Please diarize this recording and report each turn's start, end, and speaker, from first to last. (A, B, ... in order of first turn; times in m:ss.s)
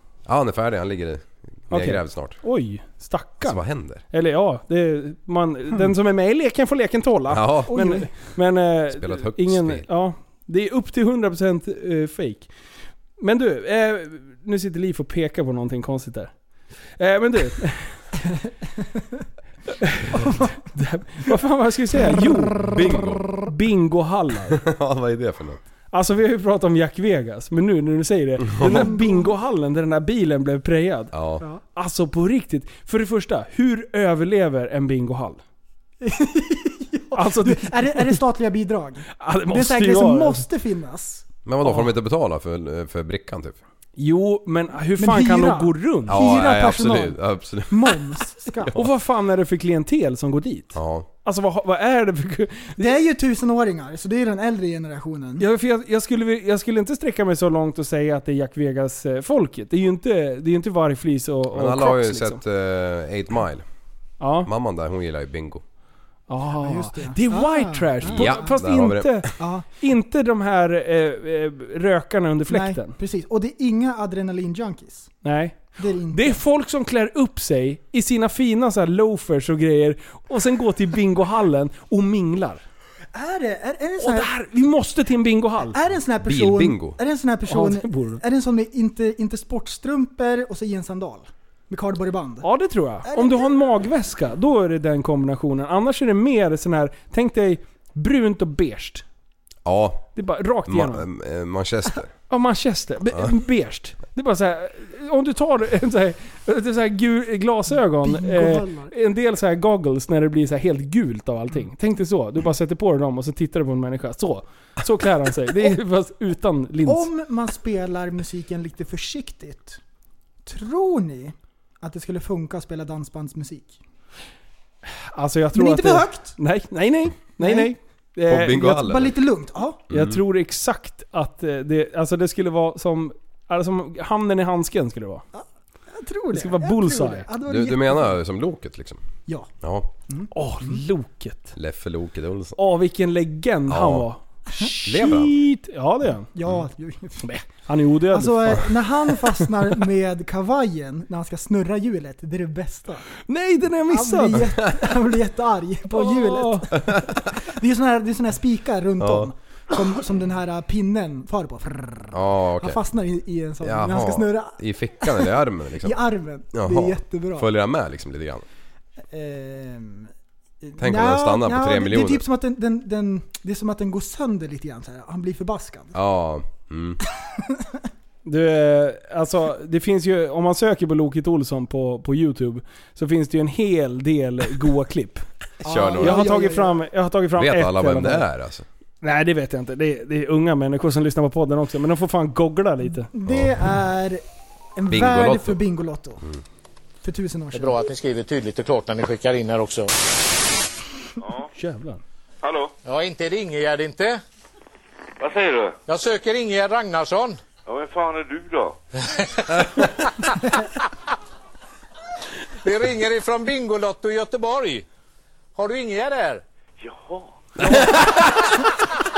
0:00.2-0:02.4 A
0:01.7-0:12.5 B
0:03.4-0:04.0 A
0:07.3-0:07.7 A
0:07.7-0:08.0 C
0:08.9-0:09.8 A
0:13.2-0:16.4 B
0:17.0-0:18.1 B
0:20.0-0:24.6 B
0:22.2-0:22.7 C
0:22.7-0:23.3 A
0:24.6-0:25.6 A
0:25.9-0:31.1 B
0:28.6-0:29.3 C
0:31.1-0:31.4 A
0:31.7-0:35.4 B
0:36.0-0:41.2 C
0:37.1-0:38.2 B
0:39.2-0:40.4 B
0:41.4-0:43.6 A
0:44.0-0:46.2 B
0:45.0-0:48.7 C
0:46.1-0:48.0 A
0:48.6-0:48.9 A
0:48.7-0:52.9 B
0:50.7-0:51.1 A
0:52.8-0:55.4 C
0:55.4-1:02.4 B
1:01.5-1:03.6 A
1:04.2-1:04.5 B
1:04.4-1:05.6 A
1:06.3-1:13.0 B
1:06.6-1:08.5 C
1:08.0-1:09.2 A
1:09.4-1:09.6 C
1:12.5-1:15.2 C
1:15.2-1:22.6 B
1:15.8-1:16.4 C
1:23.1-1:24.3 C
1:24.0-1:25.8 B
1:25.7-1:32.5 C
1:26.2-1:27.0 A
1:27.5-1:28.2 B
1:32.4-1:39.0 B
1:33.0-1:33.5 C
1:39.6-1:40.1 A
1:40.2-1:41.0 B
1:40.7-1:42.1 A
1:42.3-1:57.1 B
1:48.0-1:48.9 C
1:56.8-1:59.8 C
2:00.4-2:03.8 C
2:05.1-2:08.6 B
2:05.5-2:06.4 C
2:07.4-2:07.7 C
2:08.3-2:09.1 A
2:08.6-2:09.8 C
2:09.9-2:10.2 A
2:09.9-2:15.2 B
2:15.3-2:18.1 C
2:16.3-2:17.2 B
2:17.5-2:19.0 A
2:19.6-2:19.9 A
2:20.1-2:20.8 C
2:20.3-2:21.5 B
2:21.6-2:22.6 A
2:22.6-2:26.3 B
2:23.7-2:24.1 A
2:24.9-2:25.3 A
2:26.3-2:27.3 C
2:27.2-2:29.4 B
2:28.1-2:33.0 C
2:33.3-2:34.6 B
2:33.9-2:36.9 C
2:35.9-2:36.7 B
2:37.4-2:45.2 C
2:39.0-2:39.3 A
2:42.1-2:42.8 A
2:43.6-2:46.0 A
2:45.8-2:47.4 C
2:46.5-2:48.4 A
2:49.1-2:50.1 C
2:50.6-2:55.9 C
2:50.8-2:52.2 A
2:55.9-2:57.0 A
2:58.2-3:05.3 B
3:05.6-3:06.8 C
3:05.6-3:06.2 A
3:06.0-3:08.3 B
3:07.4-3:08.6 A
3:09.0-3:13.1 B
3:13.0-3:14.2 C
3:13.3-3:13.5 A
3:14.8-3:16.2 C
3:14.9-3:15.6 A
3:17.0-3:17.8 C
3:17.5-3:19.9 D
3:21.6-3:22.0 B
3:22.4-3:22.7 E
3:22.8-3:24.2 D
3:25.2-3:25.8 E
3:25.9-3:27.4 D
3:27.7-3:28.8 E
3:32.6-3:34.8 D
3:35.6-3:36.4 D
3:36.8-3:37.2 E